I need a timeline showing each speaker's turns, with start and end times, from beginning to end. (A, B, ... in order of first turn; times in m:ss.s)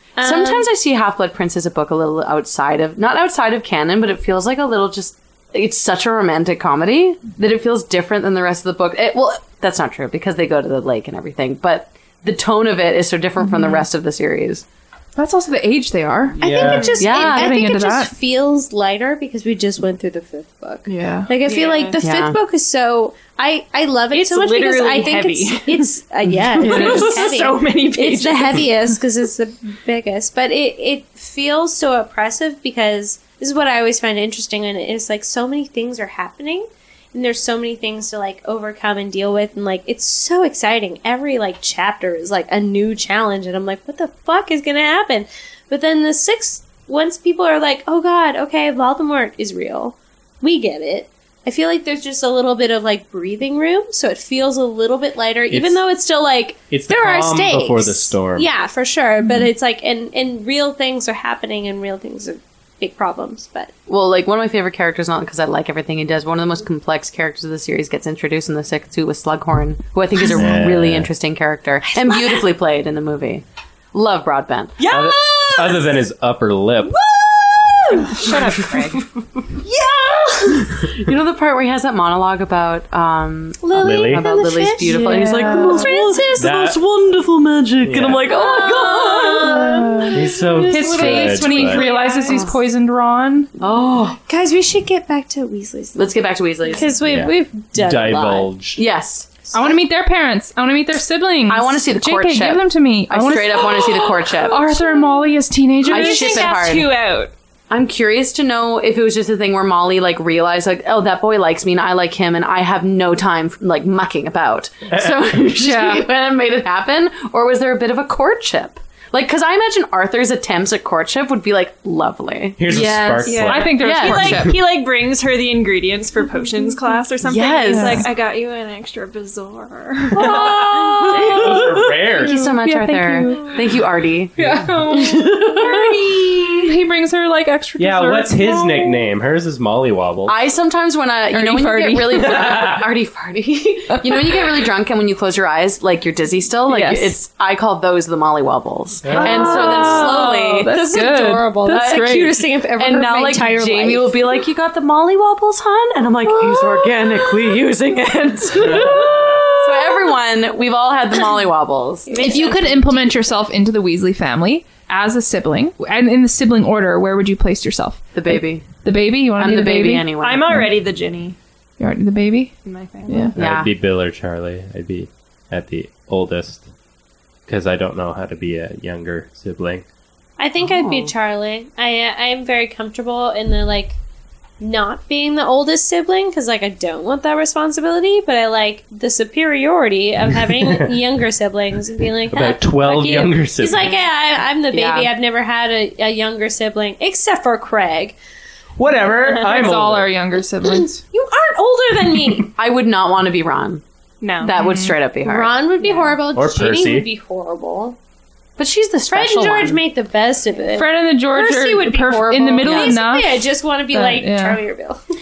0:00.2-0:00.7 A
0:00.2-0:14.6 B
0:13.4-0:13.8 C
0:15.2-0:16.4 C
0:16.4-0:17.0 D
0:16.4-1:03.7 A
0:16.6-0:17.0 E
0:17.0-0:17.6 B
0:17.1-0:18.1 C
0:20.9-0:21.3 C
0:21.4-0:22.0 E
0:22.0-0:22.4 B
0:24.1-0:25.9 E
0:26.5-0:28.7 E
0:26.6-0:27.1 C
0:55.5-0:55.8 D
0:56.7-0:58.5 D
1:03.9-1:14.9 B
1:10.3-1:11.1 D
1:11.9-1:12.4 A
1:14.8-1:15.8 A
1:14.9-1:16.9 D
1:16.8-1:18.3 A
1:18.2-1:18.9 B
1:19.6-1:20.6 A
1:20.5-1:30.2 B
1:23.6-1:26.4 A
1:23.8-1:24.3 D
1:25.4-1:25.9 C
1:26.4-1:26.8 D
1:27.8-1:28.3 D
1:28.3-1:29.8 A
1:29.6-1:30.2 C
1:30.1-1:31.8 D
1:30.7-1:33.5 C
1:30.9-1:32.3 E
1:30.9-1:31.3 B
1:31.8-1:32.4 A
1:32.2-1:32.6 B
1:33.6-1:34.2 B
1:34.2-1:36.1 A
1:35.9-1:37.0 B
1:36.7-1:38.5 A
1:37.0-1:38.8 D
1:38.8-1:39.4 B
1:39.5-1:46.5 C
1:41.5-1:45.2 B
1:45.8-1:47.0 B
1:45.9-1:47.3 E
1:47.7-2:02.6 B
1:54.9-1:55.4 D
1:55.6-1:56.1 C
2:02.6-2:04.5 D
2:02.7-2:04.5 C
2:03.2-2:10.3 E
2:03.7-2:04.4 B
2:07.2-2:08.1 B
2:07.7-2:08.1 C
2:10.2-2:11.6 C
2:10.2-2:12.4 D
2:10.2-2:16.6 B
2:12.2-2:13.7 C
2:14.4-2:19.1 C
2:17.8-2:20.4 D
2:20.2-2:31.0 B
2:21.3-2:22.4 C
2:22.2-2:22.9 D
2:23.9-2:24.5 C
2:26.7-2:27.1 C
2:29.0-2:29.5 D
2:29.1-2:32.4 C
2:29.3-2:34.2 A
2:31.7-2:42.4 B
2:38.7-2:39.4 D
2:42.1-2:42.8 A
2:42.2-2:50.7 C
2:48.1-2:48.7 B
2:49.4-2:50.6 B
2:50.2-2:51.4 E
2:51.8-2:52.5 C
2:52.6-2:53.3 E
2:53.1-2:53.3 C
2:53.1-2:53.7 B
2:53.4-2:56.7 D
2:57.5-2:59.8 D
3:00.4-3:04.0 A
3:00.6-3:01.1 B
3:04.6-3:18.2 A
3:10.5-3:10.9 D
3:12.3-3:13.9 D
3:14.7-3:15.1 B
3:18.8-3:20.1 D
3:19.4-3:21.0 C
3:20.6-3:22.5 A
3:22.6-3:23.8 B
3:24.2-3:24.9 E
3:24.4-3:25.5 B
3:24.5-3:25.0 C
3:25.2-3:28.0 A
3:26.3-3:27.1 D
3:28.6-3:29.8 B
3:29.1-3:35.0 A
3:30.7-3:34.6 C
3:32.6-3:33.0 B